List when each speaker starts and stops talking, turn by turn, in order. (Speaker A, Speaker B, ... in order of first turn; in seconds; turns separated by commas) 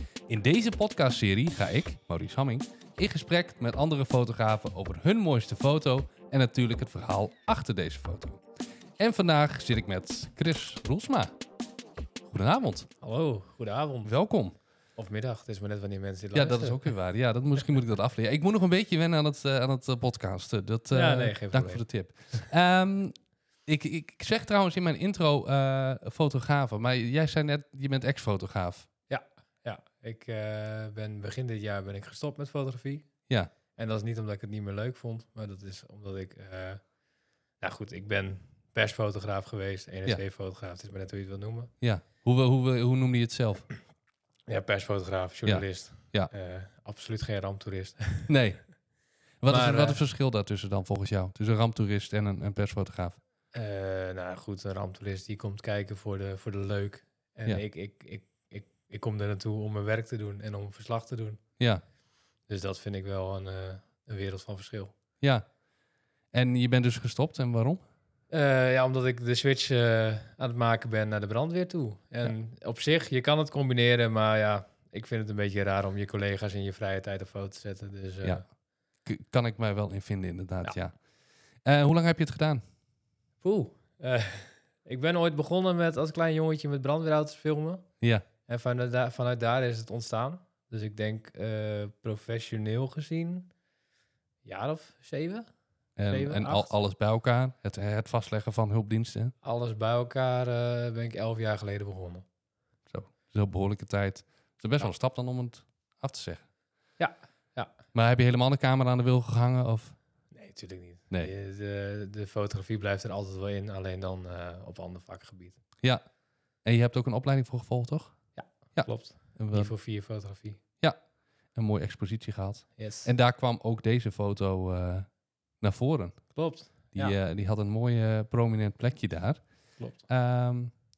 Speaker A: 0.3-8.4, Speaker A: 9.0-11.3, Speaker A: 12.3-12.9, Speaker B: 13.0-14.1, Speaker A: 14.1-14.6, Speaker B: 15.0-16.9, Speaker A: 16.3-23.1, Speaker B: 20.9-22.4, Speaker A: 23.7-28.9, Speaker B: 29.1-33.1, Speaker B: 33.8-36.8, Speaker B: 37.6-41.7, Speaker A: 41.8-43.7, Speaker B: 44.5-48.3, Speaker A: 45.5-46.3, Speaker A: 48.3-48.7, Speaker A: 49.4-53.2, Speaker B: 49.5-50.0, Speaker B: 53.5-61.4, Speaker B: 62.5-64.9, Speaker A: 65.2-65.5, Speaker A: 66.3-67.8, Speaker B: 68.3-78.4, Speaker A: 79.0-81.0, Speaker A: 81.6-82.6, Speaker B: 83.4-87.9, Speaker A: 88.0-88.2, Speaker B: 88.5-93.5, Speaker B: 94.5-95.5, Speaker A: 96.0-99.3, Speaker B: 96.1-96.7, Speaker B: 99.4-102.2, Speaker A: 102.9-106.4, Speaker B: 107.0-107.7, Speaker A: 107.9-110.0, Speaker B: 110.3-115.6, Speaker A: 116.6-118.1, Speaker B: 118.4-120.6, Speaker A: 118.8-119.7, Speaker A: 121.5-125.1, Speaker B: 122.8-123.1, Speaker A: 125.6-126.2, Speaker B: 126.3-127.2, Speaker A: 127.0-129.4, Speaker A: 130.1-130.7